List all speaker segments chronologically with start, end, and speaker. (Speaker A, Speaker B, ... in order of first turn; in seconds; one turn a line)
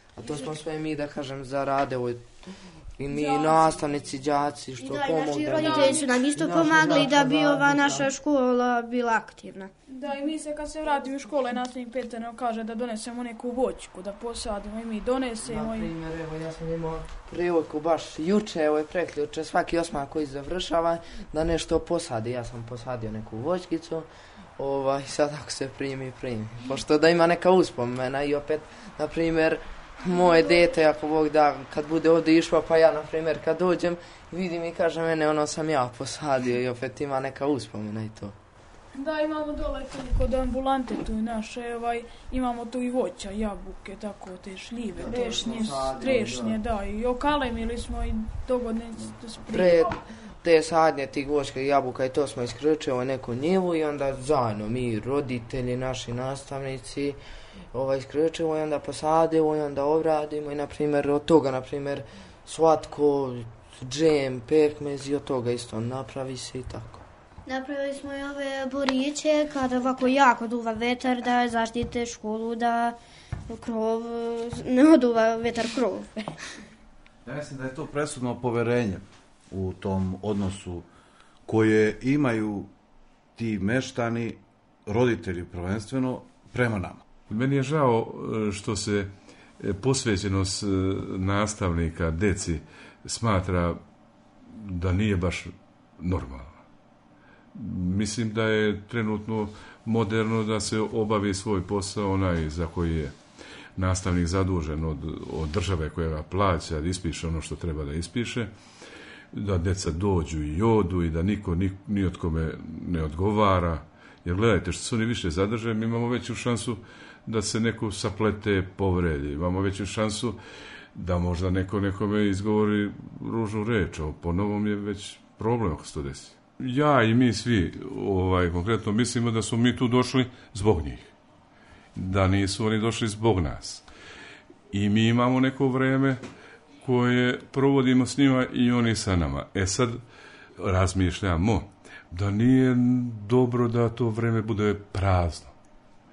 Speaker A: 0.2-2.3
Speaker B: 0.2-0.5
Speaker A: 3.0-8.1
Speaker B: 3.1-3.8
Speaker C: 4.8-9.7
Speaker B: 5.4-6.2
Speaker B: 9.9-15.9
Speaker A: 15.4-24.1
Speaker A: 24.6-38.4
Speaker B: 30.1-30.8
Speaker B: 38.9-50.0
Speaker A: 45.0-46.6
Speaker A: 49.5-57.2
Speaker A: 57.7-67.0
Speaker C: 67.5-73.0
Speaker C: 73.5-76.3
Speaker D: 77.2-80.9
Speaker D: 81.5-82.7
Speaker D: 83.4-87.0
Speaker E: 87.3-93.8
Speaker E: 94.5-96.6
Speaker E: 97.5-103.1
Speaker E: 103.8-108.5
Speaker E: 109.3-120.4
Speaker E: 120.9-131.1
Speaker E: 131.9-133.8
Speaker E: 134.7-136.2
Speaker E: 136.8-140.0
Speaker E: 140.6-145.5